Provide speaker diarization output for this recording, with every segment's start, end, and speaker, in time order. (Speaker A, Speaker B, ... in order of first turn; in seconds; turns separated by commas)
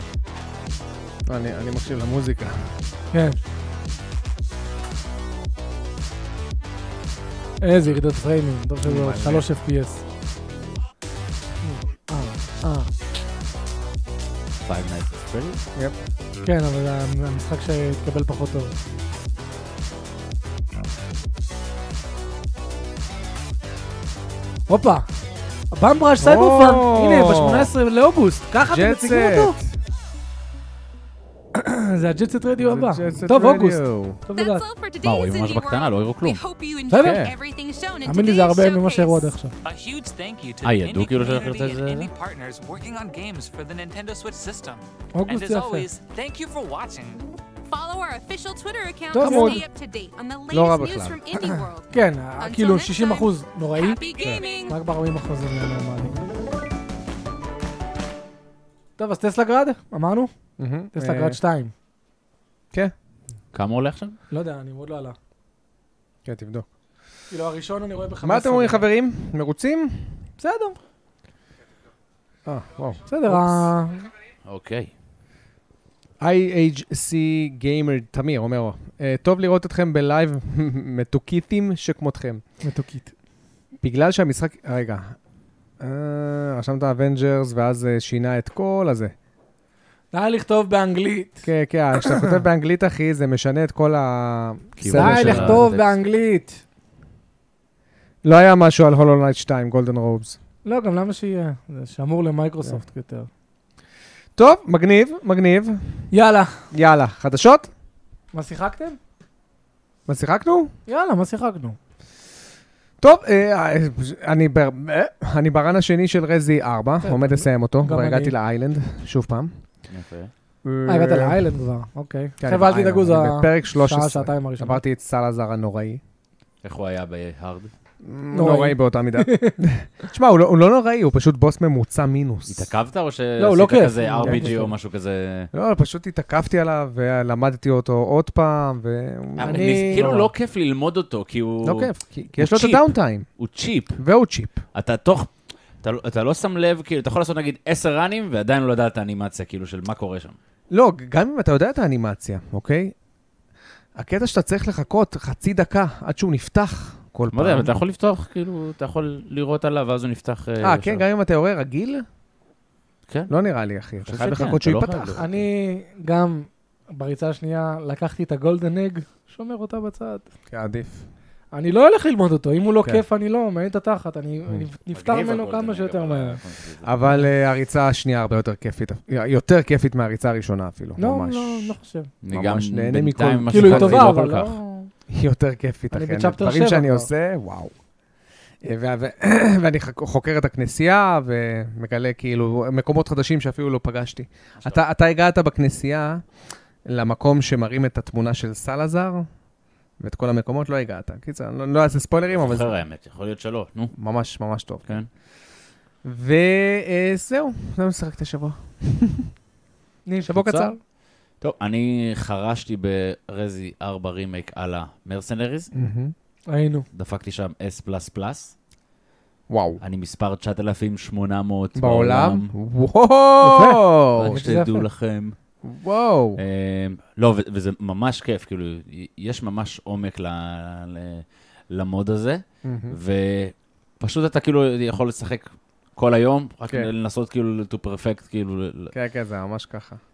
Speaker A: 1.2-2.7, Speaker B: 3.1-3.4, Speaker B: 7.6-10.0, Speaker A: 8.8-9.5, Speaker B: 11.6-12.9, Speaker C: 14.6-15.6, Speaker B: 16.4-18.7, Speaker B: 24.7-25.1, Speaker B: 25.7-29.6, Speaker A: 26.2-27.7, Speaker A: 28.6-29.8, Speaker B: 31.5-34.6, Speaker A: 32.6-34.2, Speaker D: 34.3-39.3, Speaker C: 35.0-36.4, Speaker B: 36.9-37.2, Speaker A: 37.0-37.4, Speaker B: 38.0-39.5, Speaker E: 39.6-47.2, Speaker C: 40.6-42.1, Speaker B: 45.1-45.9, Speaker D: 47.6-54.8, Speaker B: 49.1-49.6, Speaker A: 49.2-49.6, Speaker A: 50.5-51.2, Speaker B: 51.9-54.0, Speaker E: 54.2-54.5, Speaker B: 54.7-56.3, Speaker B: 59.0-60.3, Speaker A: 60.6-61.4, Speaker B: 60.9-61.7, Speaker C: 63.5-64.2, Speaker B: 64.3-65.2, Speaker A: 66.2-66.7, Speaker B: 67.3-68.9, Speaker A: 68.2-70.2, Speaker B: 70.4-70.8, Speaker A: 72.5-73.7, Speaker B: 73.1-74.1, Speaker C: 74.5-74.9, Speaker A: 76.2-82.4, Speaker B: 82.6-83.1, Speaker A: 83.8-85.2, Speaker A: 85.8-89.1, Speaker B: 90.1-92.4, Speaker A: 91.4-95.7, Speaker C: 94.8-96.0, Speaker B: 94.9-96.6, Speaker A: 98.2-100.4, Speaker B: 100.6-103.3, Speaker A: 104.3-106.1, Speaker B: 106.1-106.7, Speaker A: 106.7-107.7, Speaker B: 108.3-109.0, Speaker A: 110.1-110.7, Speaker B: 110.9-111.8, Speaker A: 113.0-119.6, Speaker B: 117.0-118.3, Speaker C: 119.9-120.3, Speaker A: 120.6-121.4, Speaker B: 120.9-124.8, Speaker A: 122.4-126.0, Speaker C: 126.6-127.7, Speaker A: 128.0-132.7, Speaker B: 128.3-129.6, Speaker C: 132.5-135.5, Speaker B: 133.4-134.7, Speaker A: 134.2-134.7, Speaker A: 135.5-140.3, Speaker C: 139.4-144.0, Speaker B: 139.4-140.3, Speaker A: 141.6-143.3, Speaker A: 144.0-144.6, Speaker C: 144.7-150.3, Speaker A: 150.7-152.9, Speaker A: 153.9-157.7, Speaker C: 157.3-161.0, Speaker A: 160.6-162.1, Speaker A: 163.3-165.3, Speaker C: 164.0-165.3, Speaker B: 165.2-170.3, Speaker A: 170.5-171.1, Speaker B: 171.5-176.4, Speaker C: 174.9-176.9, Speaker A: 176.8-181.7, Speaker B: 181.0-182.1, Speaker C: 182.2-184.5, Speaker A: 182.3-184.2, Speaker B: 183.5-184.9, Speaker A: 185.1-187.7, Speaker B: 185.9-187.1, Speaker A: 188.6-196.2, Speaker A: 196.8-199.3, Speaker A: 200.0-202.8, Speaker C: 202.3-203.9, Speaker A: 203.9-205.0, Speaker A: 206.0-209.3, Speaker B: 210.1-210.8, Speaker A: 210.3-210.7, Speaker C: 211.4-215.7, Speaker A: 215.7-216.1, Speaker B: 216.5-216.8, Speaker C: 216.9-218.5, Speaker A: 219.5-219.8, Speaker C: 219.8-222.5, Speaker A: 221.8-224.4, Speaker B: 223.4-224.8, Speaker C: 224.2-225.3, Speaker A: 225.6-226.4, Speaker C: 226.4-238.9, Speaker A: 232.6-232.9, Speaker A: 238.9-240.0